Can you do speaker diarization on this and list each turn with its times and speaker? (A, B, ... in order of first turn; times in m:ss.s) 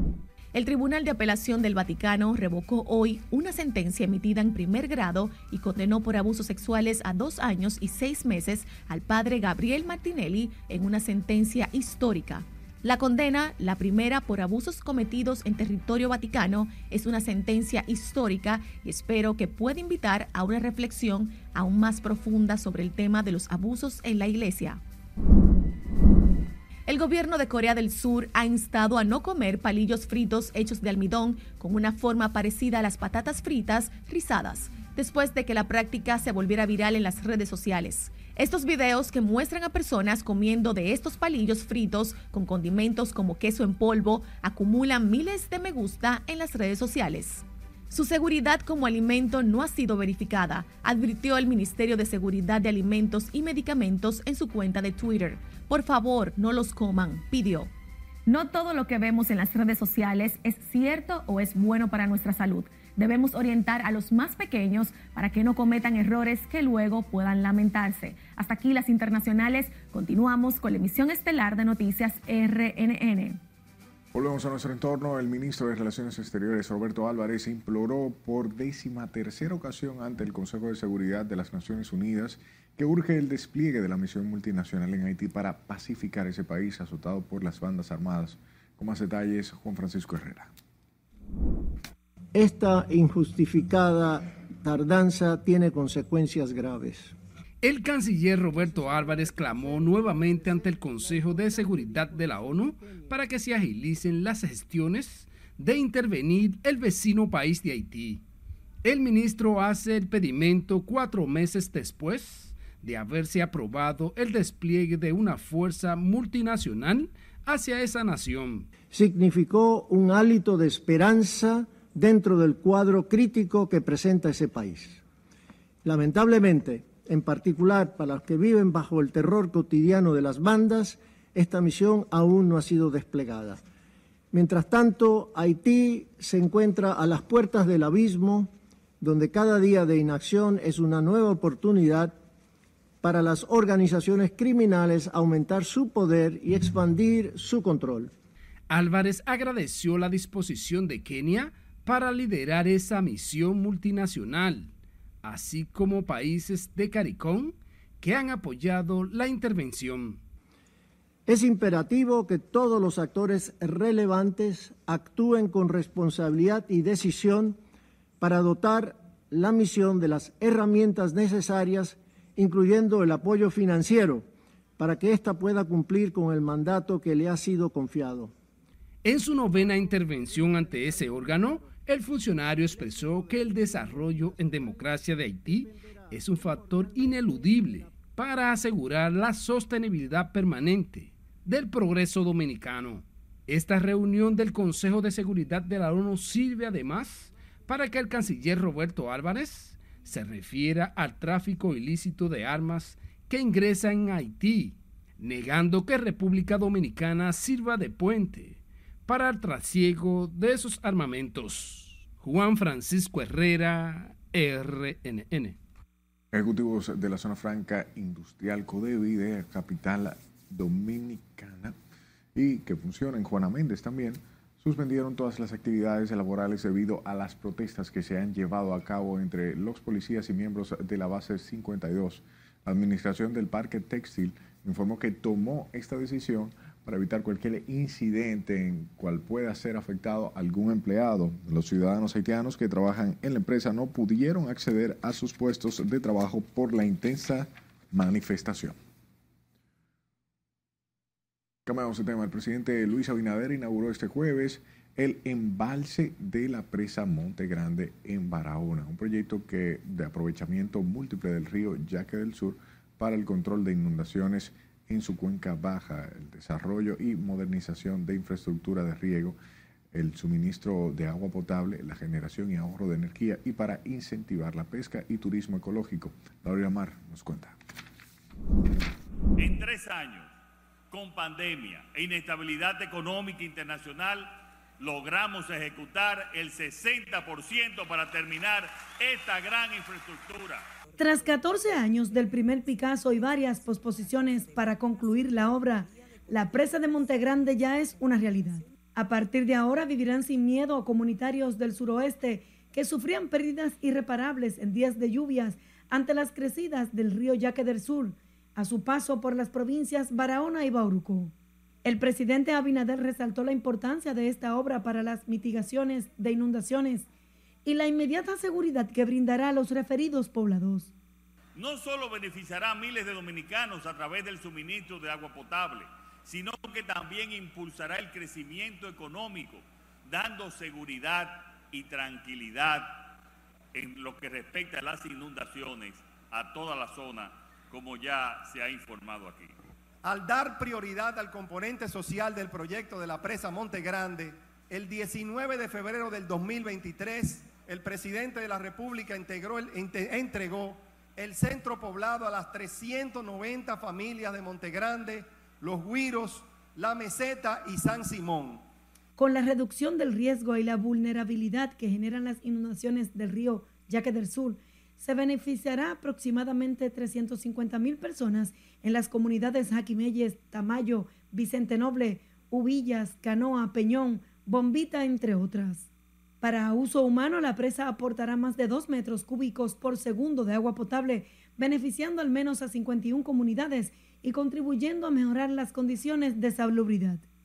0:00.5-0:24.8 A
0:26.9-0:57.7 A
0:58.2-1:13.4 A
1:14.1-1:30.5 B
1:32.3-1:37.2 C
1:37.6-1:48.2 D
1:48.8-1:58.7 D
1:58.9-2:05.0 C
2:05.8-2:13.6 C
2:14.3-2:22.2 C
2:23.0-2:28.1 C
2:28.7-2:34.7 D
2:35.2-2:40.2 D
2:41.3-2:47.6 C
2:48.2-2:54.3 C
2:54.8-2:58.3 C
2:59.0-3:35.6 D
3:36.3-3:41.7 B
3:42.3-4:08.8 B
4:11.6-4:29.4 B
4:29.9-4:37.6 B
4:39.4-4:40.3 E
4:40.9-4:50.6 E
4:51.0-5:11.3 F
5:11.8-5:17.1 F
5:17.6-5:20.9 F
5:21.5-5:33.2 E
5:33.7-5:39.5 E
5:40.0-5:58.6 G
5:59.2-6:15.9 F
6:16.4-6:27.2 F